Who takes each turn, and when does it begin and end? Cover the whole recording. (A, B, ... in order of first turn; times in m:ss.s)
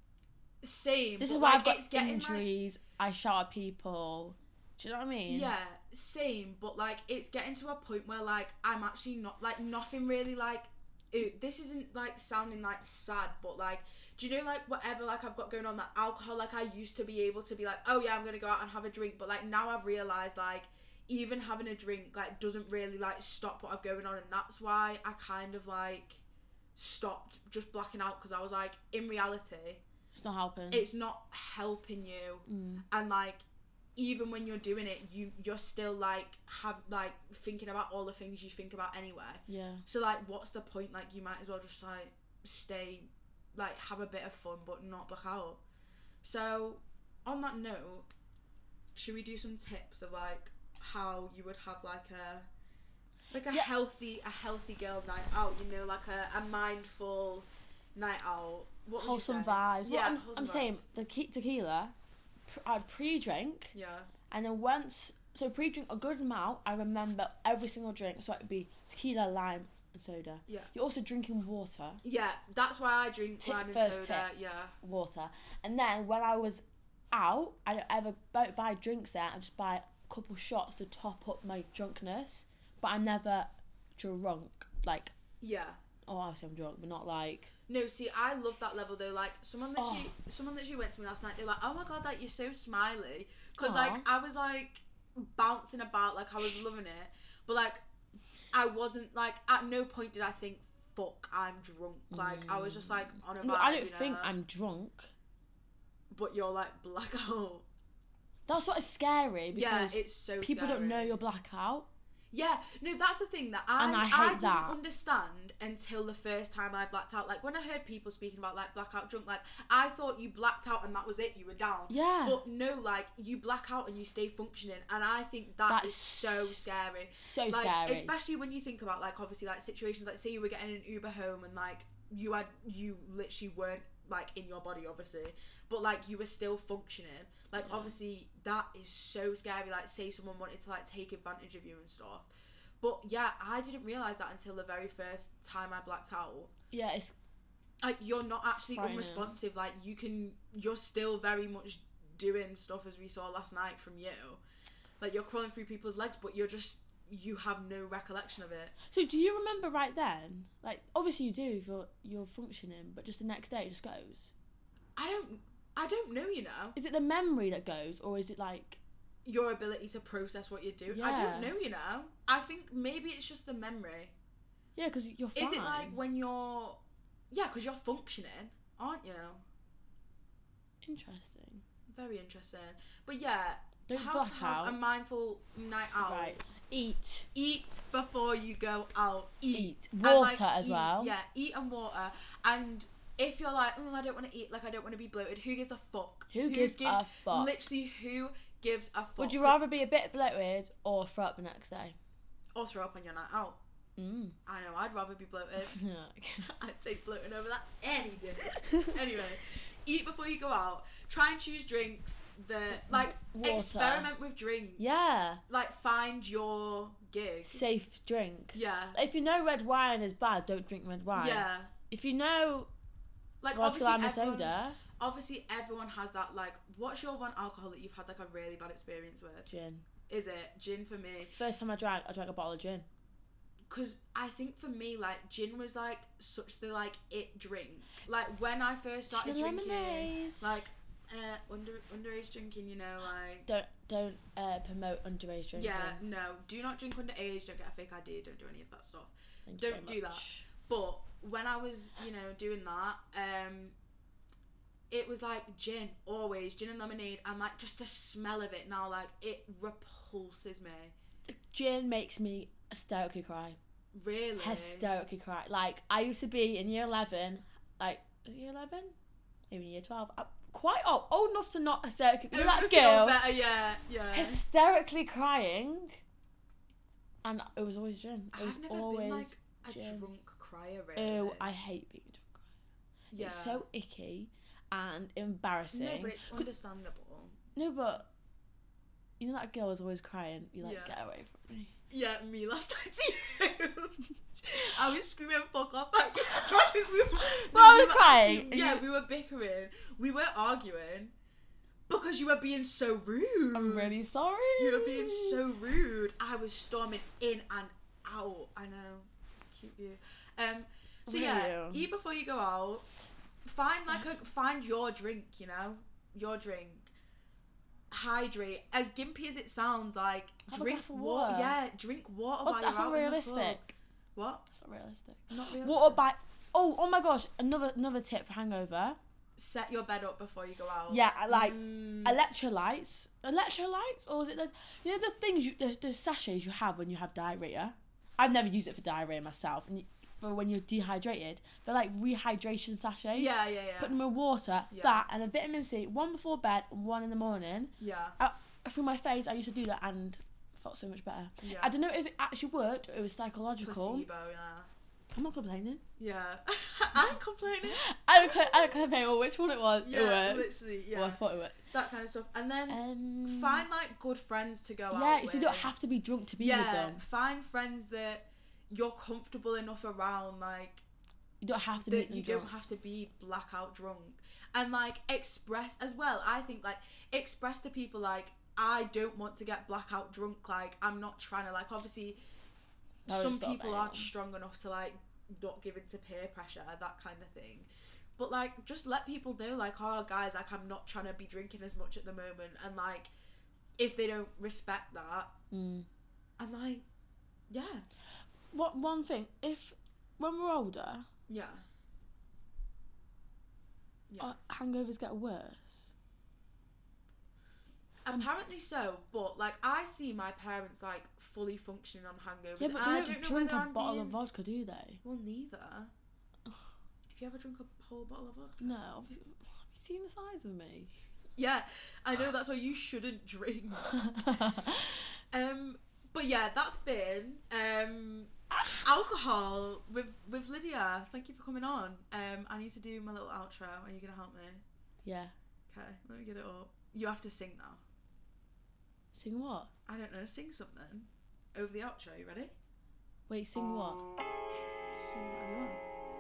0:00.6-0:02.5 A
0:01.2-0:05.5 B
0:05.3-0:26.2 A
0:26.8-0:29.8 A
0:30.1-0:30.9 B
0:30.7-0:33.4 A
0:32.5-0:32.8 B
0:34.0-0:45.6 A
0:39.5-0:39.8 B
0:46.2-0:48.1 A
0:49.0-0:52.5 A
0:53.3-1:00.8 A
0:59.0-1:01.9 B
1:02.5-1:03.7 B
1:03.7-1:04.1 A
1:04.3-1:12.0 B
1:10.5-1:10.7 A
1:12.0-1:14.8 A
1:13.4-1:14.3 B
1:14.8-1:25.1 B
1:25.4-1:25.8 A
1:26.1-1:27.5 B
1:27.7-1:37.8 A
1:29.8-1:30.1 B
1:33.6-1:34.1 B
1:38.5-1:44.3 A
1:42.1-1:45.1 B
1:46.1-1:47.7 A
1:48.5-1:51.9 B
1:49.5-1:51.2 A
1:52.3-2:22.3 A
1:53.8-1:54.8 B
2:01.9-2:02.4 B
2:05.7-2:06.6 B
2:07.2-2:08.1 B
2:17.6-2:17.9 B
2:22.8-2:26.5 A
2:26.7-2:27.2 B
2:27.8-2:34.4 A
2:28.7-2:29.3 B
2:35.0-2:38.8 A
2:38.9-2:44.3 B
2:45.0-2:46.8 A
2:46.8-2:48.8 B
2:49.2-2:54.1 A
2:50.9-2:51.5 B
2:54.8-2:56.0 B
2:55.4-2:56.8 A
2:57.3-2:59.4 A
3:00.8-3:01.6 B
3:01.9-3:06.4 A
3:03.9-3:04.8 B
3:06.0-3:07.3 B
3:07.3-3:19.6 A
3:09.5-3:11.1 B
3:16.3-3:17.5 B
3:19.2-3:22.0 B
3:22.6-3:23.6 A
3:24.0-3:24.4 B
3:24.4-3:25.8 A
3:25.6-3:26.5 B
3:26.4-3:37.7 A
3:32.7-3:34.1 B
3:34.8-3:35.4 B
3:37.4-3:42.7 B
3:38.5-3:39.0 A
3:41.1-3:41.7 A
3:43.4-3:49.5 A
3:43.5-3:44.8 B
3:49.5-3:49.9 B
3:50.1-3:51.3 A
3:51.3-3:52.9 B
3:53.7-4:03.5 A
3:59.1-4:00.6 B
4:03.5-4:06.0 B
4:05.6-4:13.8 A
4:09.5-4:10.5 B
4:14.9-4:20.9 A
4:21.3-4:23.6 B
4:23.9-4:24.9 A
4:24.4-4:29.0 B
4:29.5-4:33.2 B
4:32.3-4:34.4 A
4:34.1-4:36.0 B
4:37.2-4:40.1 B
4:38.3-4:41.5 A
4:41.0-4:42.5 B
4:43.1-4:43.6 A
4:43.1-4:46.5 B
4:45.7-4:47.4 A
4:47.6-4:48.1 B
4:49.2-4:51.7 B
4:50.6-4:51.0 A
4:51.9-5:01.1 A
4:57.2-4:58.8 B
5:01.9-5:12.8 A
5:03.5-5:05.4 B
5:11.1-5:11.9 B
5:13.4-5:16.9 A
5:17.9-5:23.6 A
5:20.5-5:21.6 B
5:22.4-5:23.7 B
5:24.2-5:24.4 A
5:24.5-5:29.0 B
5:25.3-5:26.0 A
5:29.4-5:32.2 A
5:30.9-5:54.1 B
5:43.1-5:44.0 A
5:44.7-5:45.0 A
5:47.8-5:48.2 A
5:51.4-5:51.8 A
5:53.6-5:54.7 A
5:55.1-5:55.8 B
5:56.0-5:58.7 A
5:57.7-6:01.6 B
5:59.8-6:01.2 A
6:01.7-6:05.7 A
6:02.7-6:03.7 B
6:04.9-6:07.0 B
6:06.4-6:10.8 A
6:11.4-6:12.5 B
6:11.8-6:22.2 A
6:23.1-6:24.1 B
6:23.1-6:33.1 A
6:33.8-6:35.3 A
6:35.5-6:35.9 B
6:36.4-6:36.8 A
6:37.5-6:37.9 A
6:38.5-6:41.1 B
6:41.3-6:41.6 A
6:44.1-6:44.4 A
6:44.2-6:45.9 B
6:48.0-6:54.2 A
6:52.6-6:55.0 B
6:55.0-6:55.9 A
6:57.1-6:58.8 A
6:58.6-7:00.9 B
7:01.4-7:04.6 A
7:03.9-7:05.0 B
7:05.3-7:14.6 A
7:15.0-7:15.3 B
7:15.7-7:17.8 A
7:19.1-7:19.7 B
7:19.9-7:22.6 A
7:23.3-7:24.0 B
7:25.0-7:25.8 A